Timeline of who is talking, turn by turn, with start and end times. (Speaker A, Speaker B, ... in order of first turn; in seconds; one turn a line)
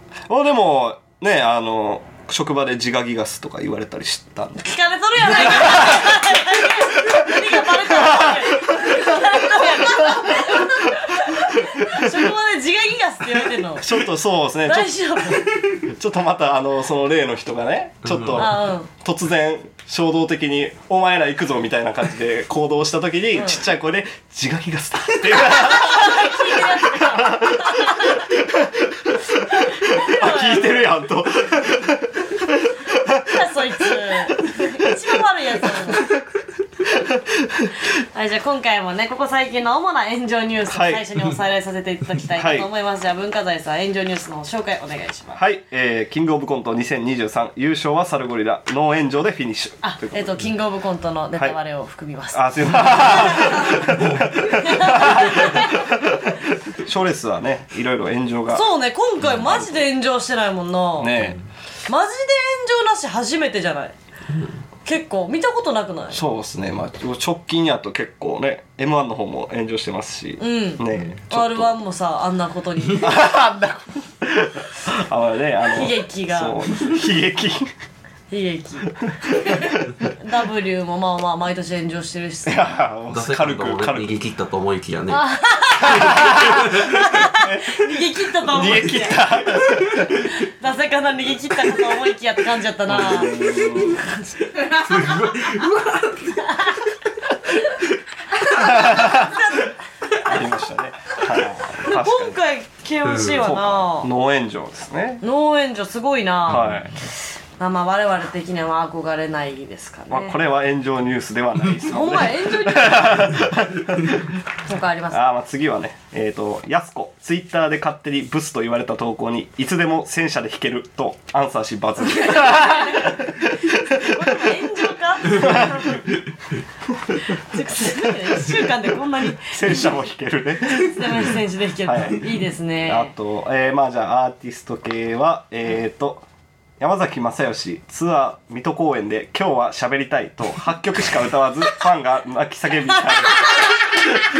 Speaker A: 0.3-4.6
Speaker B: 4.6-14.0
Speaker A: 5.2-12.3
Speaker A: 13.6-35.2
Speaker B: 14.6-15.5
Speaker C: 18.0-18.5
Speaker B: 18.4-18.9
Speaker B: 23.4-23.6
Speaker B: 25.4-28.2
Speaker B: 29.8-30.9
Speaker B: 33.3-36.1
Speaker A: 35.7-36.1
Speaker A: 36.8-37.8
Speaker B: 38.0-45.4
Speaker A: 40.7-41.1
Speaker A: 42.3-42.7
Speaker A: 45.3-50.4
Speaker B: 49.8-53.9
Speaker A: 52.3-58.7
Speaker C: 53.8-54.4
Speaker B: 54.5-55.8
Speaker B: 58.5-61.2
Speaker A: 59.4-59.8
Speaker A: 61.0-61.4
Speaker B: 61.9-64.0
Speaker B: 64.8-66.2
Speaker A: 66.1-71.8
Speaker B: 70.4-73.2
Speaker A: 73.0-77.7
Speaker B: 75.7-76.6
Speaker B: 78.3-82.8
Speaker A: 79.0-80.1
Speaker A: 82.5-84.1
Speaker C: 83.1-85.2
Speaker B: 85.1-89.6
Speaker A: 85.9-90.1
Speaker C: 86.5-86.8
Speaker B: 90.4-94.2
Speaker A: 92.9-94.0
Speaker C: 94.6-96.7
Speaker B: 96.5-96.8
Speaker A: 98.5-99.5
Speaker B: 99.0-99.7
Speaker A: 100.2-102.4
Speaker B: 101.8-104.1
Speaker C: 103.0-103.4
Speaker A: 103.4-105.2
Speaker B: 105.2-106.8
Speaker A: 106.5-106.9
Speaker C: 106.5-106.9
Speaker B: 107.6-110.4
Speaker A: 110.1-114.3
Speaker B: 111.9-113.4
Speaker B: 114.7-115.2
Speaker A: 115.1-124.5
Speaker B: 122.3-123.1
Speaker B: 124.0-126.1
Speaker A: 125.2-125.8
Speaker B: 127.4-129.9
Speaker A: 128.0-128.3
Speaker A: 129.4-132.3
Speaker B: 130.6-133.1
Speaker A: 132.8-136.2
Speaker A: 136.8-144.0
Speaker B: 143.0-143.8